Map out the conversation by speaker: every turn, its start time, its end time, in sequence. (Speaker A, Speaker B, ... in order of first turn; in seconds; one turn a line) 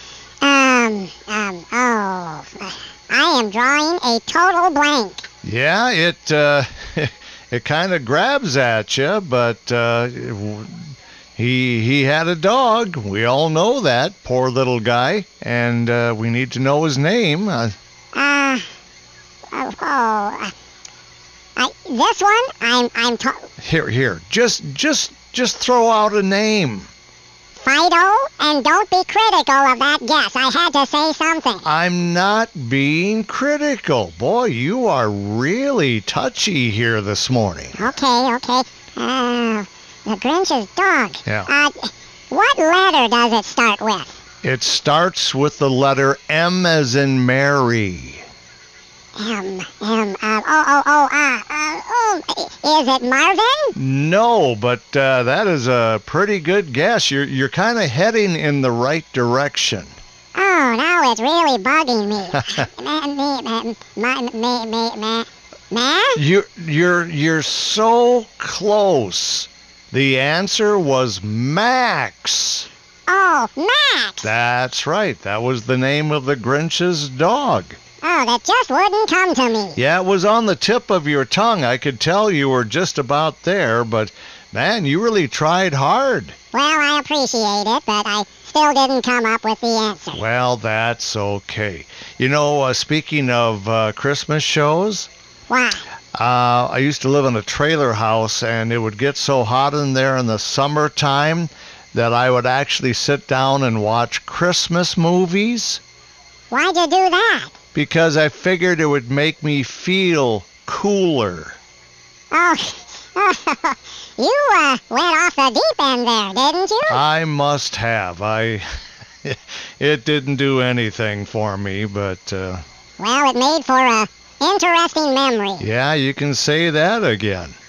Speaker A: 0.4-5.2
Speaker B: 5.4-17.8
Speaker A: 18.1-18.7
Speaker A: 19.5-20.5
Speaker A: 21.6-23.5
Speaker B: 23.6-26.9
Speaker A: 27.6-31.7
Speaker B: 31.6-37.8
Speaker A: 37.8-44.1
Speaker B: 44.4-48.2
Speaker A: 49.2-53.7
Speaker B: 53.8-59.9
Speaker A: 60.4-66.2
Speaker B: 66.2-72.7
Speaker A: 73.1-74.3
Speaker B: 74.2-77.8
Speaker A: 78.0-79.8
Speaker B: 79.8-86.4
Speaker A: 86.5-90.2
Speaker B: 90.1-95.1
Speaker A: 95.5-95.8
Speaker B: 96.1-105.8
Speaker A: 106.5-107.5
Speaker B: 107.7-111.6
Speaker A: 112.3-117.0
Speaker B: 116.9-118.7
Speaker B: 119.2-122.6
Speaker A: 123.0-125.7
Speaker B: 125.6-127.6